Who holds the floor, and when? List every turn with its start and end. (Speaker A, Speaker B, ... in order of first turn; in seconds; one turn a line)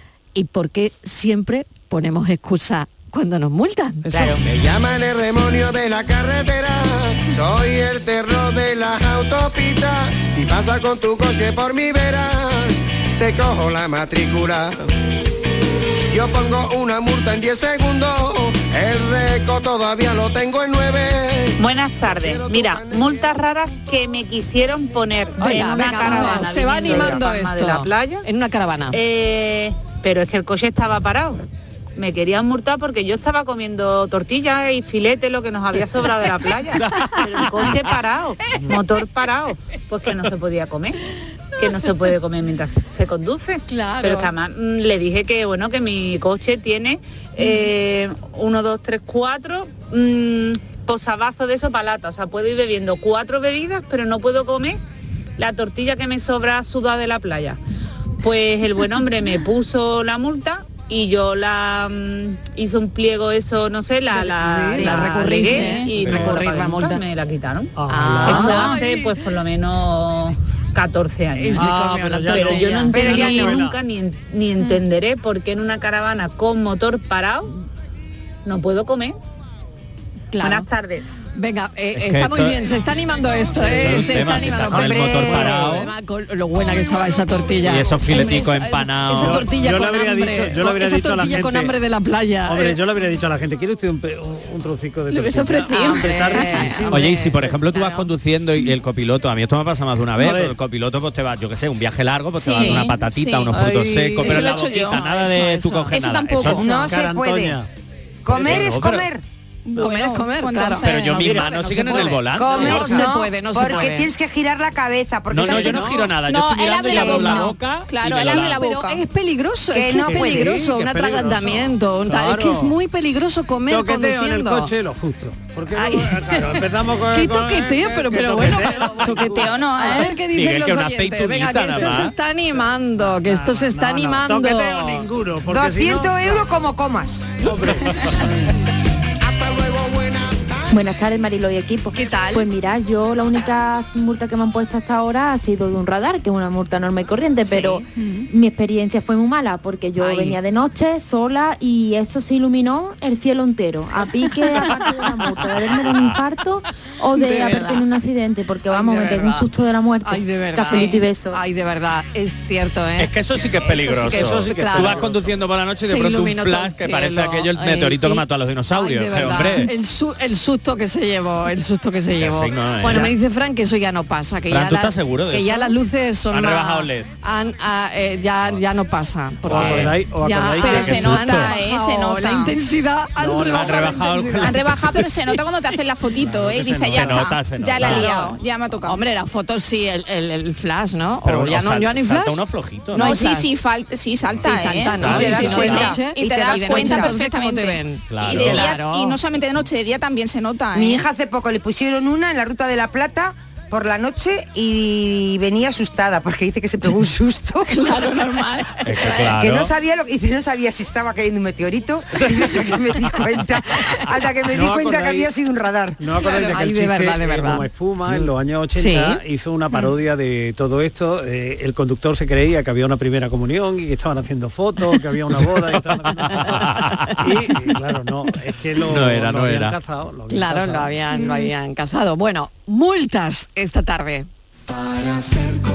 Speaker A: 0.3-4.1
Speaker B: 4.1-4.4
Speaker C: 4.4-14.9
Speaker C: 16.1-23.2
Speaker D: 21.6-28.3
Speaker A: 25.4-29.0
Speaker B: 26.9-27.2
Speaker D: 28.9-31.4
Speaker D: 32.0-41.0
Speaker E: 36.8-37.9
Speaker D: 41.6-54.8
Speaker A: 43.7-44.3
Speaker D: 55.4-57.6
Speaker D: 58.2-77.5
Speaker A: 64.2-67.0
Speaker B: 64.7-65.1
Speaker F: 65.6-65.9
Speaker E: 65.8-66.4
Speaker G: 67.8-68.8
Speaker A: 67.9-69.1
Speaker A: 71.3-73.3
Speaker G: 71.5-73.8
Speaker B: 72.9-73.6
Speaker D: 78.5-79.2
Speaker A: 80.3-80.7
Speaker D: 80.4-81.0
Speaker A: 81.3-92.8
Speaker E: 82.0-82.7
Speaker E: 83.6-85.9
Speaker B: 84.7-85.8
Speaker E: 87.7-89.5
Speaker G: 89.2-91.8
Speaker G: 92.5-97.1
Speaker F: 95.1-96.8
Speaker A: 95.7-98.1
Speaker E: 96.9-106.7
Speaker G: 100.2-100.6
Speaker F: 102.4-103.6
Speaker G: 103.5-104.3
Speaker F: 104.2-105.0
Speaker A: 104.2-106.0
Speaker F: 105.9-106.8
Speaker B: 106.5-107.6
Speaker G: 106.8-107.7
Speaker B: 108.2-109.2
Speaker G: 108.3-108.7
Speaker E: 108.3-109.1
Speaker F: 109.7-111.2
Speaker A: 109.8-114.1
Speaker E: 110.8-113.0
Speaker B: 112.3-115.9
Speaker G: 112.5-113.0
Speaker E: 115.3-118.6
Speaker G: 115.4-116.1
Speaker F: 116.2-119.0
Speaker B: 116.9-117.5
Speaker A: 118.3-124.7
Speaker B: 119.7-120.6
Speaker G: 120.0-122.8
Speaker G: 123.7-129.6
Speaker A: 125.7-135.1
Speaker F: 129.2-130.2
Speaker E: 130.3-132.2
Speaker G: 132.6-136.3
Speaker B: 135.5-137.3
Speaker G: 137.4-138.1
Speaker C: 139.2-140.6
Speaker H: 140.7-161.4
Speaker A: 141.9-142.5
Speaker A: 147.5-147.8
Speaker F: 148.0-148.2
Speaker A: 150.0-150.4
Speaker F: 154.2-154.9
Speaker F: 157.2-157.8
Speaker A: 157.3-157.6
Speaker A: 158.7-159.5
Speaker A: 160.0-165.1
Speaker F: 160.7-161.0
Speaker E: 163.0-169.7
Speaker G: 164.1-165.3
Speaker A: 165.8-185.1
Speaker E: 172.2-173.2
Speaker E: 174.5-175.8
Speaker E: 176.3-177.1
Speaker G: 179.4-181.4
Speaker E: 179.5-180.0
Speaker F: 180.6-182.6
Speaker E: 180.7-181.5
Speaker G: 183.2-184.1
Speaker E: 183.4-185.2
Speaker F: 184.4-189.0
Speaker G: 186.2-187.3
Speaker E: 186.9-188.3
Speaker A: 187.8-188.3
Speaker A: 188.8-192.4
Speaker E: 191.2-193.2
Speaker A: 192.9-193.5
Speaker F: 192.9-201.1
Speaker A: 194.4-199.2
Speaker E: 195.0-196.0
Speaker B: 195.1-197.2
Speaker E: 198.1-198.8
Speaker B: 200.7-207.8
Speaker F: 207.7-209.4
Speaker E: 208.8-209.7
Speaker B: 209.3-216.0
Speaker G: 214.5-215.3
Speaker G: 216.0-230.9
Speaker A: 216.2-217.7
Speaker A: 218.7-219.2
Speaker E: 226.2-227.3
Speaker A: 226.4-227.2
Speaker E: 228.9-229.8
Speaker A: 230.3-234.3
Speaker F: 231.1-231.5